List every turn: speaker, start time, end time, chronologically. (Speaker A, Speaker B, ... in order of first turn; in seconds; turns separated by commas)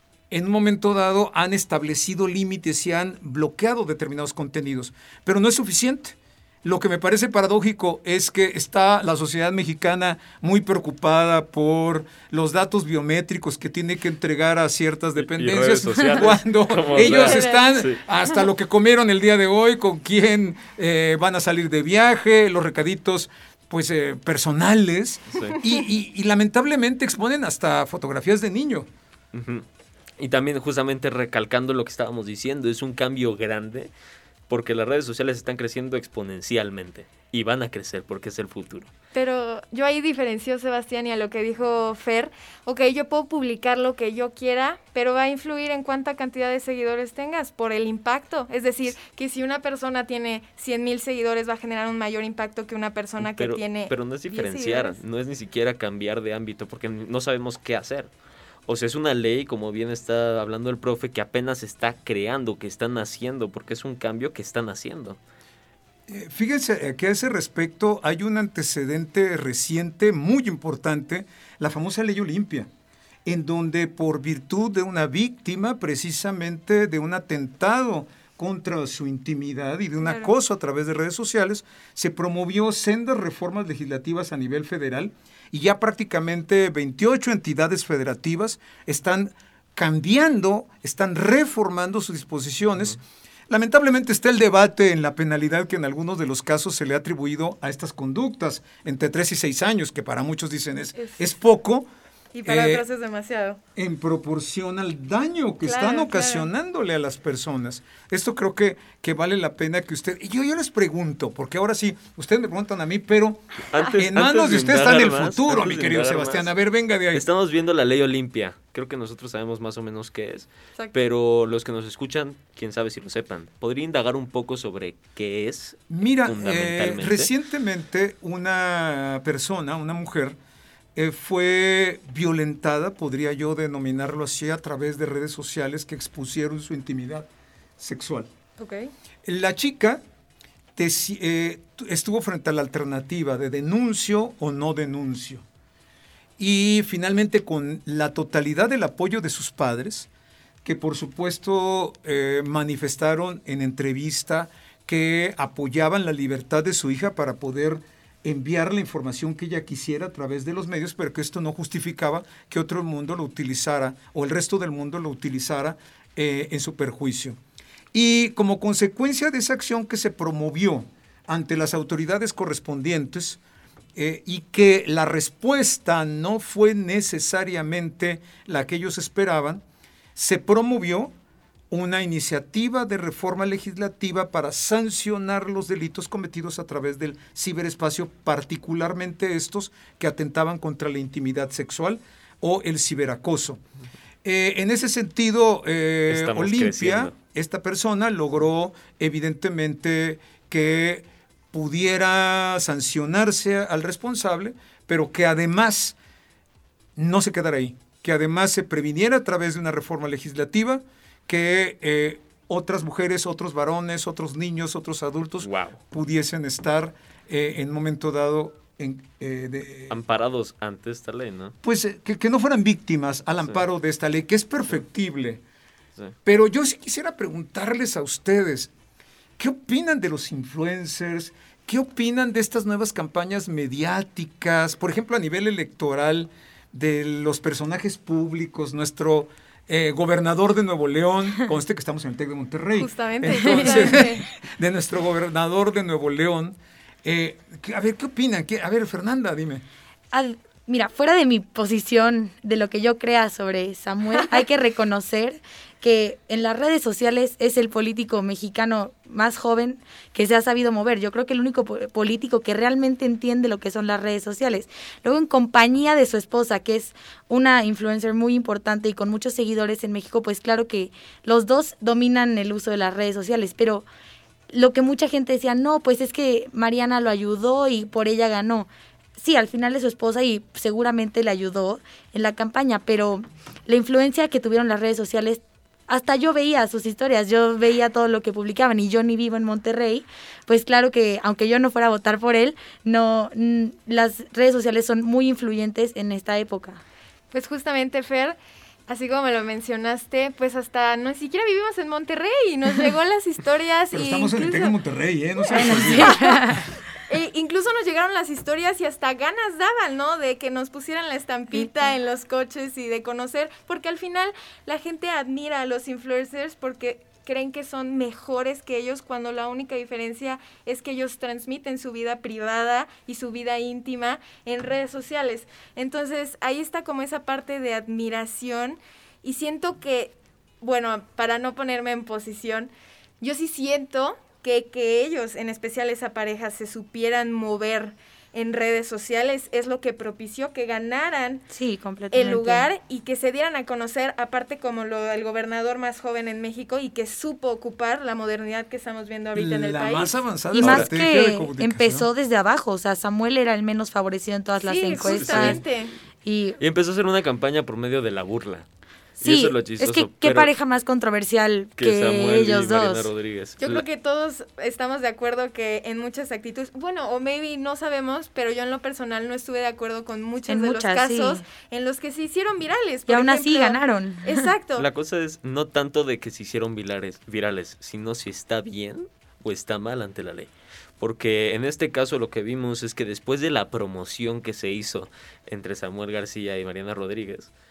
Speaker A: 0.3-28.9, Speaker B: 15.2-18.0, Speaker C: 16.9-17.7, Speaker B: 29.3-29.6, Speaker B: 30.2-33.9, Speaker B: 34.5-38.9, Speaker C: 39.1-55.0, Speaker B: 53.2-58.1, Speaker B: 58.7-65.2, Speaker A: 66.1-72.7, Speaker A: 73.2-101.9, Speaker C: 80.0-80.3, Speaker C: 101.0-101.2, Speaker C: 102.3-103.6, Speaker A: 102.4-102.8, Speaker A: 103.8-117.2, Speaker C: 105.6-106.5, Speaker B: 113.6-116.5, Speaker B: 117.1-127.3, Speaker A: 125.9-130.3, Speaker A: 130.9-137.3, Speaker A: 137.8-138.3, Speaker C: 138.6-138.9, Speaker A: 139.2-140.0, Speaker A: 140.8-145.4, Speaker A: 146.4-150.1, Speaker A: 150.6-167.4, Speaker A: 167.9-173.4, Speaker A: 173.9-179.6, Speaker A: 180.2-181.1, Speaker A: 181.7-193.6, Speaker A: 194.2-205.9, Speaker B: 196.1-197.2, Speaker A: 206.9-220.0, Speaker B: 215.4-215.8, Speaker B: 219.9-221.6, Speaker A: 221.6-225.4, Speaker A: 226.2-228.7, Speaker A: 229.4-249.6, Speaker C: 242.8-244.2, Speaker D: 250.1-273.8, Speaker D: 274.5-296.8, Speaker C: 297.3-304.7, Speaker A: 303.9-306.4, Speaker D: 305.5-306.7, Speaker C: 305.6-306.5, Speaker C: 307.1-341.4, Speaker D: 341.5-342.7, Speaker C: 342.1-350.1, Speaker A: 349.3-352.1, Speaker D: 350.5-355.6, Speaker B: 350.6-350.9, Speaker C: 354.6-355.9, Speaker B: 354.9-355.6, Speaker D: 356.2-356.6, Speaker B: 356.6-358.6, Speaker B: 359.2-360.5, Speaker D: 359.2-363.1, Speaker B: 361.8-363.8, Speaker C: 363.6-374.9, Speaker D: 370.5-371.4, Speaker D: 373.1-374.5, Speaker B: 374.8-387.5